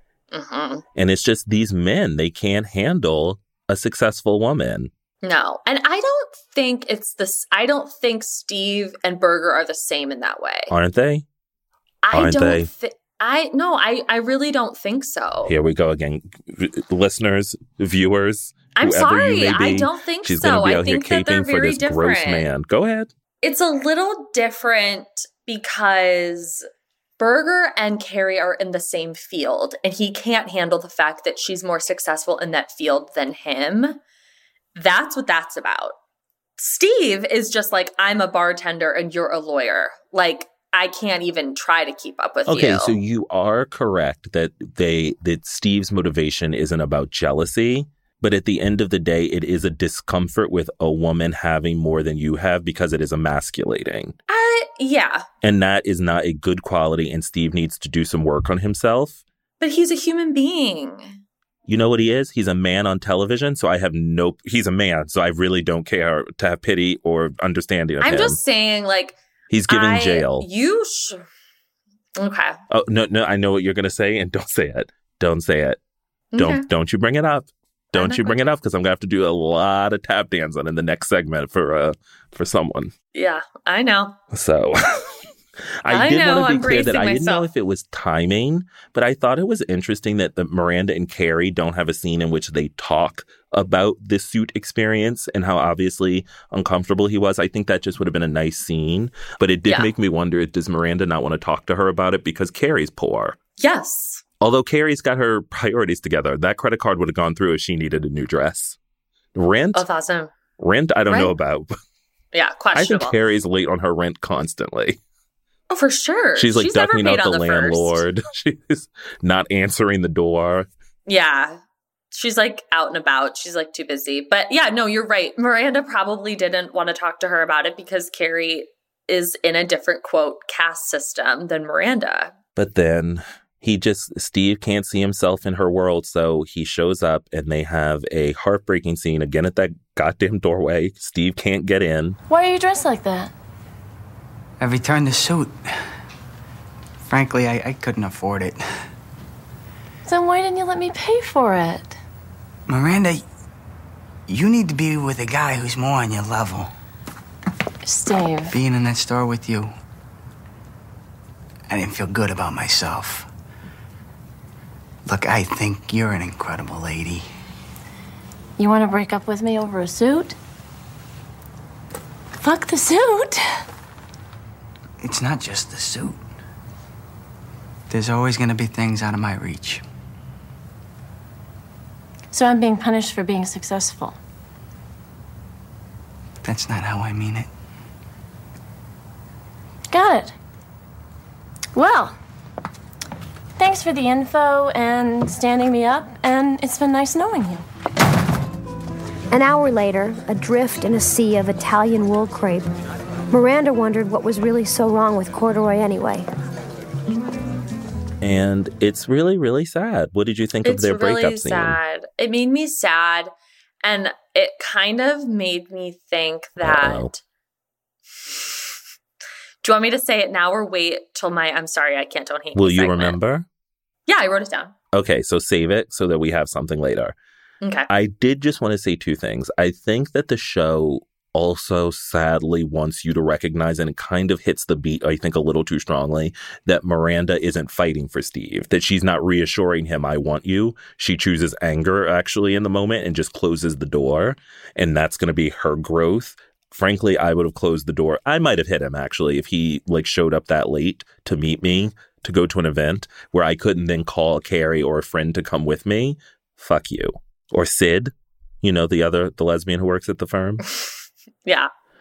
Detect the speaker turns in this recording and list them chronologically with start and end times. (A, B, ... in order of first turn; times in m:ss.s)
0:00.3-0:00.8 A
0:01.0-0:04.9 B
0:05.2-0:10.7 A
0:10.7-0:11.2 B
0:12.0-0:15.5 A
0:12.1-0:12.7 B
0:15.5-0:23.1 B
0:18.8-0:22.4 A
0:23.4-0:26.7 A
0:27.2-0:34.0 A
0:34.8-0:36.0 A
0:36.6-0:43.0 A
0:42.5-0:54.2 B
0:54.3-0:55.2 A
0:55.4-0:59.2 B
0:59.6-1:01.2 A
1:01.7-1:08.4 B
1:08.0-1:09.2 A
1:09.5-1:10.5 B
1:09.7-1:11.2 A
1:12.2-1:12.6 A
1:12.7-1:15.8 B
1:16.3-1:16.6 A
1:16.4-1:22.9 B
1:17.9-1:18.5 A
1:23.1-1:24.2 A
1:24.3-1:25.2 B
1:25.8-1:43.4 B
1:25.9-1:27.5 A
1:43.6-1:44.2 A
1:44.4-1:48.8 B
1:49.4-1:49.8 B
1:49.7-1:50.3 A
1:50.6-1:51.7 B
1:51.1-1:51.3 A
1:52.3-1:53.2 A
1:52.8-1:55.0 B
1:55.7-1:58.0 A
1:56.4-2:00.7 B
2:01.1-2:01.6 A
2:02.1-2:12.4 A
2:12.6-2:22.2 B
2:22.3-2:23.3 C
2:24.6-2:25.6 D
2:27.0-2:28.7 D
2:30.0-2:32.0 C
2:32.7-2:33.2 D
2:34.3-2:36.7 D
2:37.8-2:38.6 C
2:38.5-2:39.7 D
2:41.7-2:43.3 D
2:45.1-2:47.3 D
2:48.6-2:50.4 C
2:52.4-2:53.6 C
2:55.0-2:56.2 D
2:57.9-2:59.8 D
3:02.3-3:04.2 C
3:06.4-3:07.5 D
3:09.9-3:10.3 C
3:11.8-3:12.2 C
3:13.6-3:17.6 C
3:19.3-3:22.7 E
3:23.3-3:26.3 E
3:28.2-3:31.8 B
3:30.6-3:33.3 A
3:33.8-3:37.2 A
3:36.6-3:37.1 B
3:39.6-3:43.2 A
3:42.6-3:43.5 B
3:44.1-3:44.7 A
3:44.9-3:47.2 B
3:47.6-3:47.9 A
3:47.9-4:20.6 B